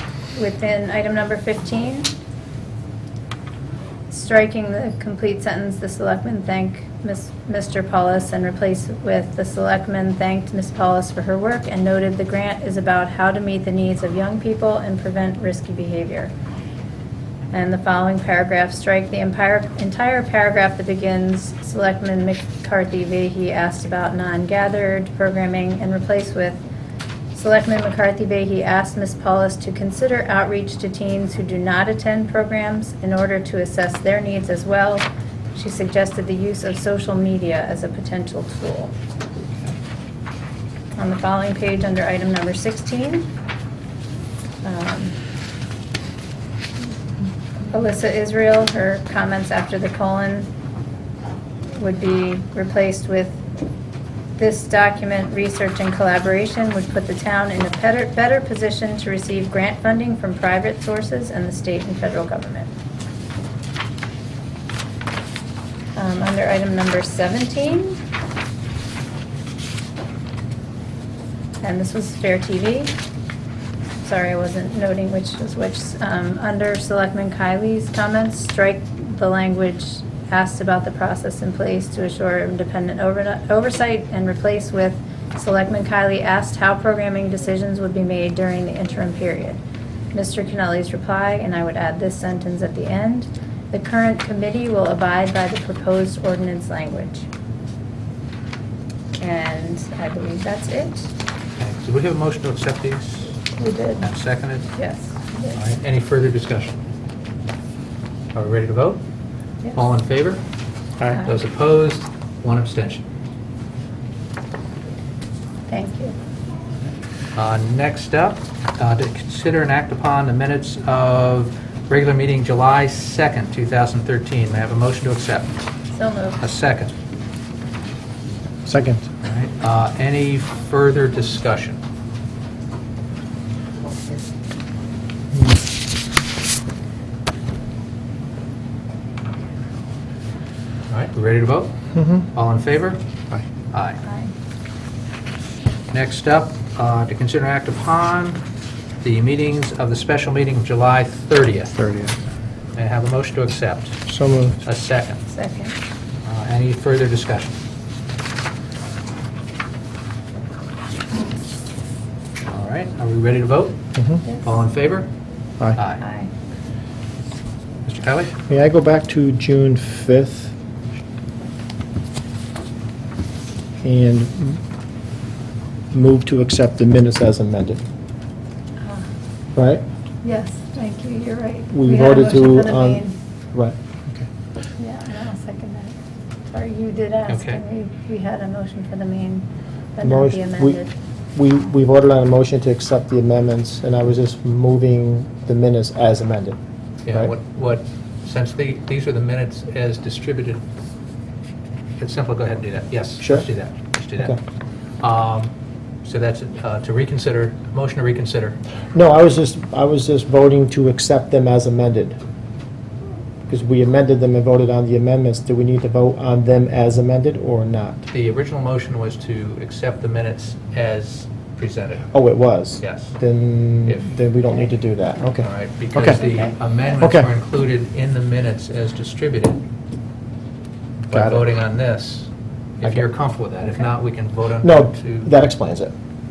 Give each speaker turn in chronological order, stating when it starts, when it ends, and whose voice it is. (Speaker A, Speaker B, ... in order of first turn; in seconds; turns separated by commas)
Speaker A: 0.3-2.1, Speaker A: 4.1-16.3, Speaker A: 17.5-26.6, Speaker A: 27.3-38.9, Speaker A: 41.0-43.3, Speaker A: 44.6-45.1, Speaker A: 47.7-50.5, Speaker A: 51.7-53.4, Speaker A: 54.4-62.7, Speaker A: 66.0-68.0, Speaker A: 71.6-72.9, Speaker A: 74.0-89.6, Speaker A: 90.1-97.3, Speaker A: 99.1-101.1, Speaker B: 101.6-103.4, Speaker A: 103.5-104.1, Speaker B: 104.0-104.7, Speaker A: 104.7-105.6, Speaker B: 105.5-106.8, Speaker B: 108.3-109.0, Speaker B: 109.7-110.4, Speaker B: 111.2-113.0, Speaker A: 115.7-116.2, Speaker B: 117.4-125.6, Speaker A: 125.9-126.4, Speaker B: 126.4-126.9, Speaker C: 128.7-129.0, Speaker B: 129.2-131.8, Speaker B: 140.9-141.8, Speaker C: 141.9-142.3, Speaker B: 142.3-143.0, Speaker B: 143.7-144.0, Speaker A: 144.0-144.3, Speaker B: 145.9-148.4, Speaker B: 149.0-151.8, Speaker C: 151.8-152.2, Speaker B: 152.8-154.0, Speaker C: 154.1-154.6, Speaker B: 154.6-155.2, Speaker A: 155.3-155.8, Speaker B: 156.2-157.6, Speaker B: 162.5-163.8, Speaker C: 164.0-164.2, Speaker B: 164.3-165.1, Speaker B: 165.7-166.0, Speaker A: 166.0-166.3, Speaker B: 167.8-168.3, Speaker C: 168.5-170.5, Speaker C: 173.8-174.6, Speaker C: 175.9-177.8, Speaker A: 178.8-179.1, Speaker C: 179.6-179.8, Speaker A: 180.2-183.2, Speaker C: 181.7-184.3, Speaker A: 184.8-186.0, Speaker A: 186.5-190.9, Speaker B: 187.3-187.6, Speaker C: 190.0-190.8, Speaker C: 191.3-196.6, Speaker B: 197.1-200.6, Speaker B: 202.0-204.4, Speaker C: 203.2-203.5, Speaker B: 205.0-205.5, Speaker B: 206.0-208.6, Speaker C: 208.9-212.2, Speaker C: 213.5-218.0, Speaker B: 218.1-222.1, Speaker C: 222.1-226.2, Speaker B: 222.8-223.2, Speaker B: 225.4-229.6, Speaker A: 226.2-226.5, Speaker C: 227.0-227.3, Speaker B: 231.1-235.3, Speaker C: 231.1-231.4, Speaker C: 234.6-235.9